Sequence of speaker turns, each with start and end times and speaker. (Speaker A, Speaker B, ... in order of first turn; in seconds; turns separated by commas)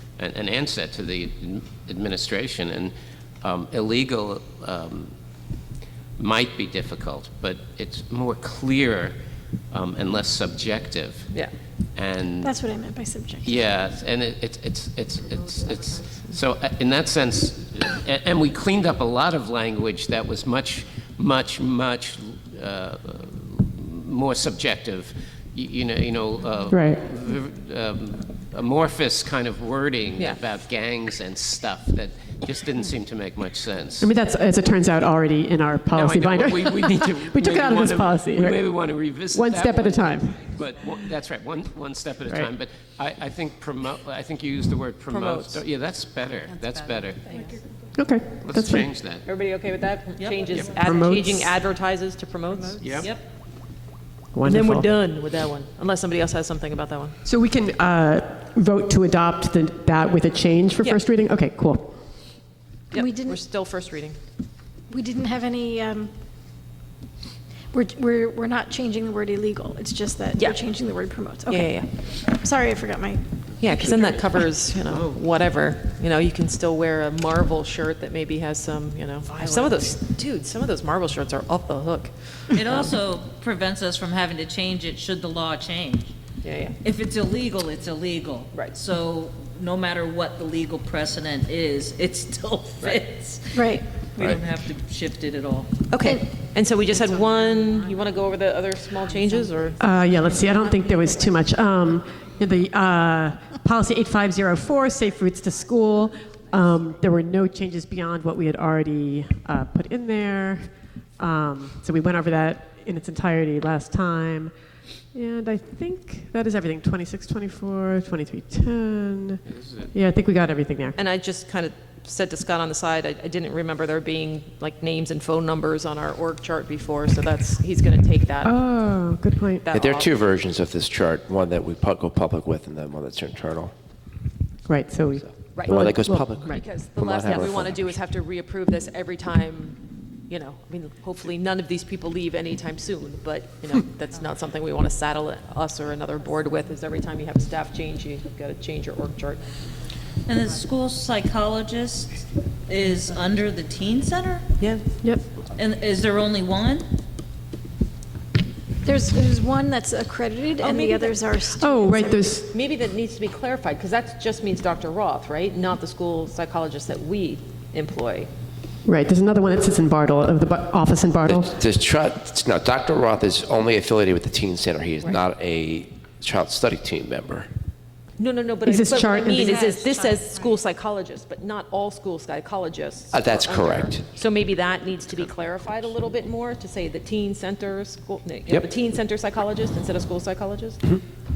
Speaker A: 0.2-5.1, Speaker A: 6.2-9.2, Speaker A: 9.7-11.3, Speaker A: 11.9-12.5, Speaker B: 12.4-13.6, Speaker A: 13.4-34.1, Speaker C: 26.7-27.0, Speaker C: 34.0-38.6, Speaker A: 35.9-47.2, Speaker C: 39.3-40.4, Speaker D: 45.1-45.6, Speaker C: 48.0-48.9, Speaker A: 48.4-49.2, Speaker D: 49.2-53.0, Speaker E: 50.2-50.4, Speaker C: 50.8-51.5, Speaker A: 52.8-53.1, Speaker C: 54.3-54.9, Speaker D: 54.5-57.1, Speaker C: 57.2-62.0, Speaker B: 62.9-63.4, Speaker D: 62.9-64.2, Speaker B: 64.9-66.1, Speaker B: 67.7-74.2, Speaker D: 71.5-71.8, Speaker D: 73.6-82.5, Speaker E: 82.5-86.1, Speaker D: 86.4-86.8, Speaker E: 86.8-95.8, Speaker B: 93.5-93.8, Speaker D: 95.9-99.8, Speaker E: 97.1-97.7, Speaker C: 99.8-110.7, Speaker C: 111.2-114.5, Speaker C: 115.1-121.0, Speaker A: 119.5-119.9, Speaker D: 121.0-128.6, Speaker C: 128.4-129.7, Speaker D: 129.6-130.1, Speaker F: 129.7-133.7, Speaker C: 134.7-136.6, Speaker F: 135.1-138.0, Speaker D: 135.5-149.4, Speaker E: 150.2-152.2, Speaker E: 152.7-154.6, Speaker D: 154.6-154.8, Speaker E: 155.5-156.9, Speaker B: 158.8-162.3, Speaker D: 160.6-161.2, Speaker C: 161.6-162.5, Speaker D: 162.5-168.3, Speaker C: 168.8-171.5, Speaker F: 171.2-177.5, Speaker D: 178.2-190.8, Speaker C: 178.7-179.7, Speaker E: 179.3-180.5, Speaker F: 183.1-184.2, Speaker F: 188.5-188.7